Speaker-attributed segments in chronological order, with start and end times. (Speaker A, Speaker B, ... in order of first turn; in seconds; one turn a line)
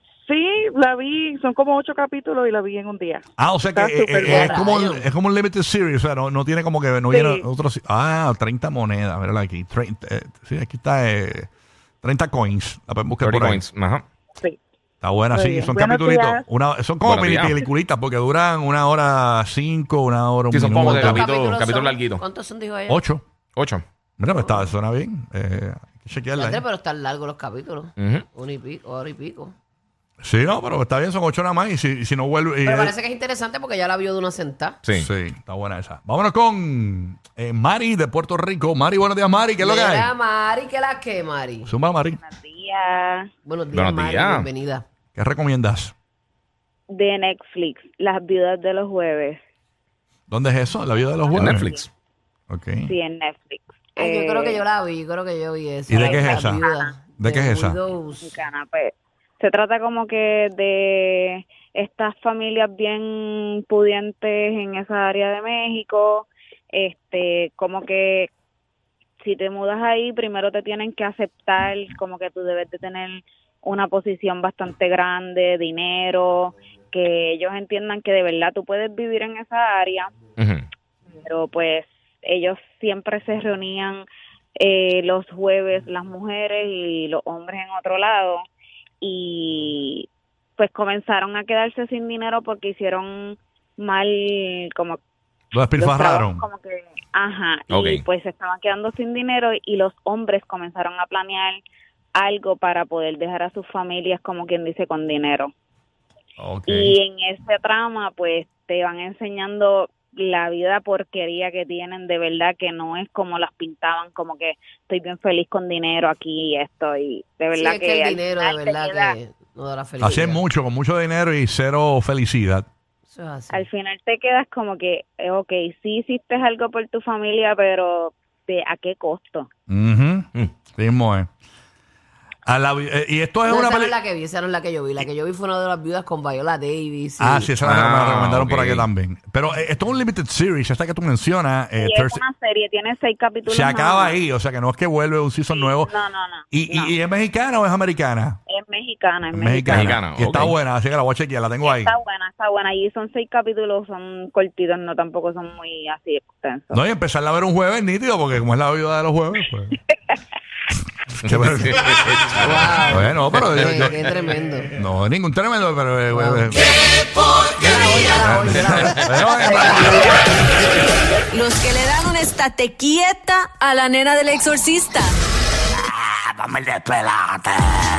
Speaker A: 0.3-4.6
Speaker B: 3.4-11.5
Speaker C: 4.3-5.0
Speaker A: 7.1-7.5
Speaker B: 12.0-13.6
Speaker D: 13.2-14.1
Speaker B: 15.0-21.3
Speaker A: 15.3-16.5
Speaker D: 17.0-17.5
Speaker D: 20.5-22.2
Speaker C: 20.8-23.0
Speaker B: 22.9-23.2
Speaker D: 23.6-23.8
Speaker B: 24.2-26.6
Speaker C: 26.4-29.5
Speaker D: 28.0-28.2
Speaker B: 30.2-32.9
Speaker C: 32.6-34.8
Speaker B: 34.9-40.1
Speaker C: 39.6-41.7
Speaker B: 41.7-42.2
Speaker E: 42.2-43.3
Speaker C: 43.5-44.9
Speaker D: 43.7-44.5
Speaker B: 45.2-45.9
Speaker E: 46.9-49.4
Speaker B: 50.3-51.7
Speaker E: 51.3-51.9
Speaker D: 51.4-51.9
Speaker B: 52.5-52.9
Speaker E: 52.9-54.7
Speaker C: 54.0-58.4
Speaker B: 55.9-56.7
Speaker E: 55.9-57.0
Speaker B: 57.2-57.8
Speaker E: 58.2-68.3
Speaker E: 69.2-80.1
Speaker D: 80.4-80.7
Speaker E: 81.2-84.0
Speaker E: 84.6-88.4
Speaker E: 89.0-95.0
Speaker B: 95.5-96.5
Speaker E: 95.8-101.6
Speaker D: 97.7-98.0
Speaker E: 102.2-105.5
Speaker B: 106.4-107.0
Speaker E: 106.7-119.2
Speaker C: 117.5-120.4
Speaker B: 120.0-122.7
Speaker C: 123.1-123.7
Speaker E: 123.5-129.5
Speaker B: 129.7-131.3
Speaker B: 132.5-134.0
Speaker C: 133.5-137.5
Speaker B: 137.2-142.2
Speaker D: 137.7-138.9
Speaker E: 141.8-144.2
Speaker B: 143.5-145.9
Speaker E: 145.5-146.9
Speaker B: 146.5-148.4
Speaker E: 148.5-149.9
Speaker B: 149.3-151.9
Speaker D: 149.7-150.6
Speaker E: 151.6-156.8
Speaker B: 156.7-159.8
Speaker D: 161.2-162.6
Speaker B: 161.2-164.0
Speaker C: 162.4-164.7
Speaker B: 164.8-167.1
Speaker C: 166.1-166.5
Speaker C: 167.5-170.0
Speaker B: 168.0-170.3
Speaker D: 168.6-168.8
Speaker F: 171.3-175.2